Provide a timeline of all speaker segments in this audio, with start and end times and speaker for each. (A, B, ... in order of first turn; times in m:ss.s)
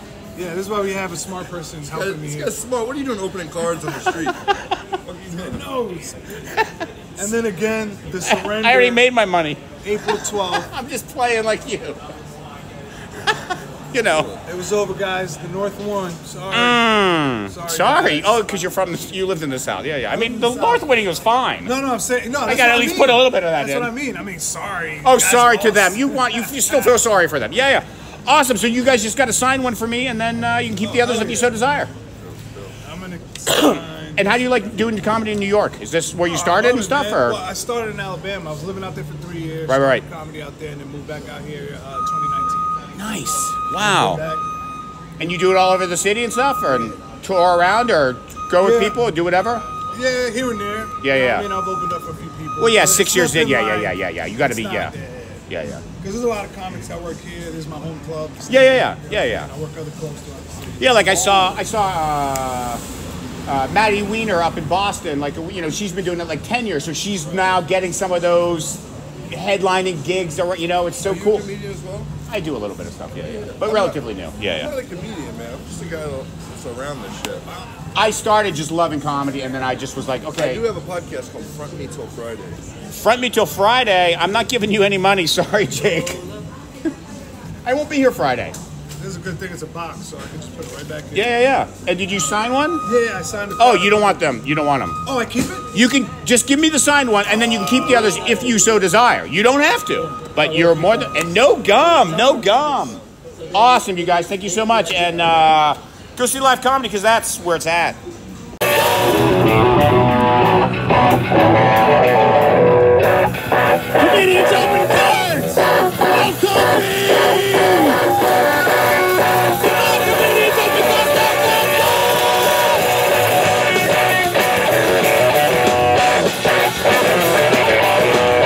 0:00.4-0:02.5 A
0:01.9-0:04.5 B
0:04.2-0:04.6 C
0:05.0-0:05.6 B
0:05.3-0:06.2 A
0:07.2-0:09.0 A
0:08.2-0:12.0 C
0:09.8-0:10.7 A
0:13.2-0:14.3 C
0:14.1-0:14.4 B
0:14.4-0:16.8 A
0:16.5-0:21.7 C
0:17.5-0:18.4 A
0:20.1-0:20.8 A
0:21.6-0:27.0 A
0:22.4-0:23.9 C
0:25.0-0:31.9 C
0:30.8-0:31.6 A
0:32.2-0:32.7 B
0:32.8-0:34.4 A
0:33.5-0:37.4 C
0:36.2-0:42.7 A
0:39.7-0:40.0 C
0:42.9-0:44.2 C
0:43.8-0:44.4 A
0:45.2-0:49.6 C
0:48.6-0:49.0 A
0:49.9-0:55.5 A
0:51.0-0:51.4 C
0:52.6-0:54.9 C
0:55.5-0:55.8 C
0:56.0-1:01.0 A
0:58.5-0:59.5 C
1:00.8-1:02.8 C
1:01.0-1:01.6 B
1:03.5-1:11.5 C
1:11.0-1:12.1 B
1:12.3-1:14.7 C
1:13.1-1:17.5 B
1:17.9-1:20.6 C
1:20.3-1:22.6 B
1:22.9-1:26.2 C
1:27.6-1:28.6 C
1:29.0-1:31.4 A
1:31.1-1:32.8 C
1:32.8-1:34.3 A
1:33.6-1:35.0 C
1:35.0-1:35.7 A
1:35.7-1:43.0 C
1:40.3-1:42.7 A
1:43.5-1:48.0 C
1:54.0-1:57.6 A
1:59.8-2:01.7 A